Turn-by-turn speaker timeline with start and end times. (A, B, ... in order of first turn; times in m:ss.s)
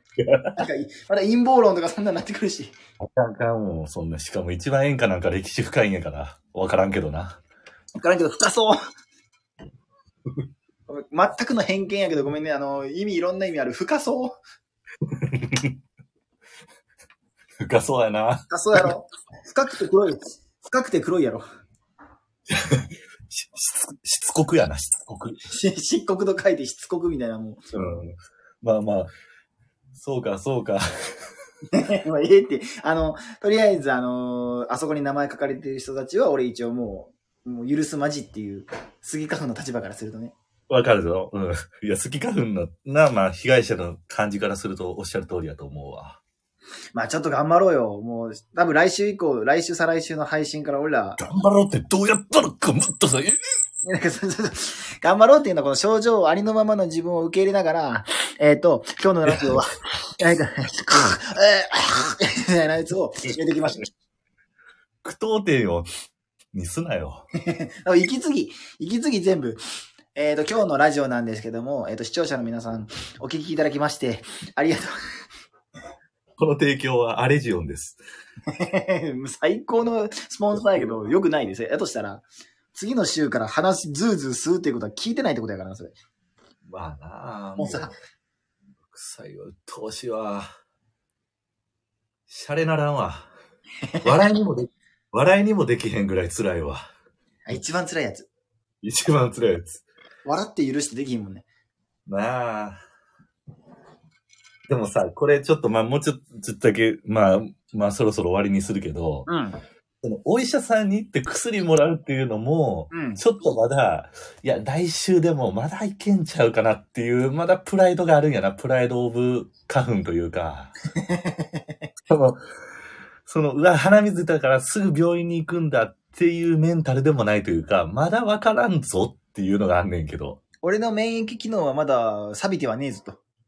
0:00.2-0:00.6 A
0:00.6-0:02.8 B
0:03.0-0:07.4 A
0:08.0-0:08.8 B
0:10.9-0:14.4 B
0:15.0-0:15.8 A
0:17.6-0:18.9 A
0:18.5-0:21.4 B
0:22.5-0:25.4 A
0:25.5-0:27.6 B
0:27.7-0:29.1 A
0:30.0-0:30.8 A
0:31.7-0:40.3 B
0:40.7-0:46.2 A
0:46.9-0:51.2 B
0:51.2-0:53.4 A
0:53.9-1:03.9 B
0:59.3-0:59.6 A
1:05.0-1:05.9 A
1:06.5-1:07.2 A
1:07.4-1:09.6 B
1:10.2-1:14.9 B
1:16.4-1:18.0 A
1:18.5-1:26.0 B
1:20.6-1:20.9 A
1:26.6-1:27.9 A
1:27.6-1:27.9 B
1:28.9-1:30.5 A
1:32.3-1:33.3 A
1:33.9-1:34.3 B
1:34.0-1:36.8 A
1:37.5-1:38.3 B
1:38.8-1:39.8 A
1:40.2-1:41.5 B
1:42.1-1:42.8 A
1:44.7-1:49.3 A
1:49.3-1:49.6 B
1:50.0-2:00.8 A
1:52.9-1:53.2 B
2:01.0-2:01.6 B
2:02.1-2:02.4 A
2:03.3-2:10.4 A
2:10.6-2:13.2 B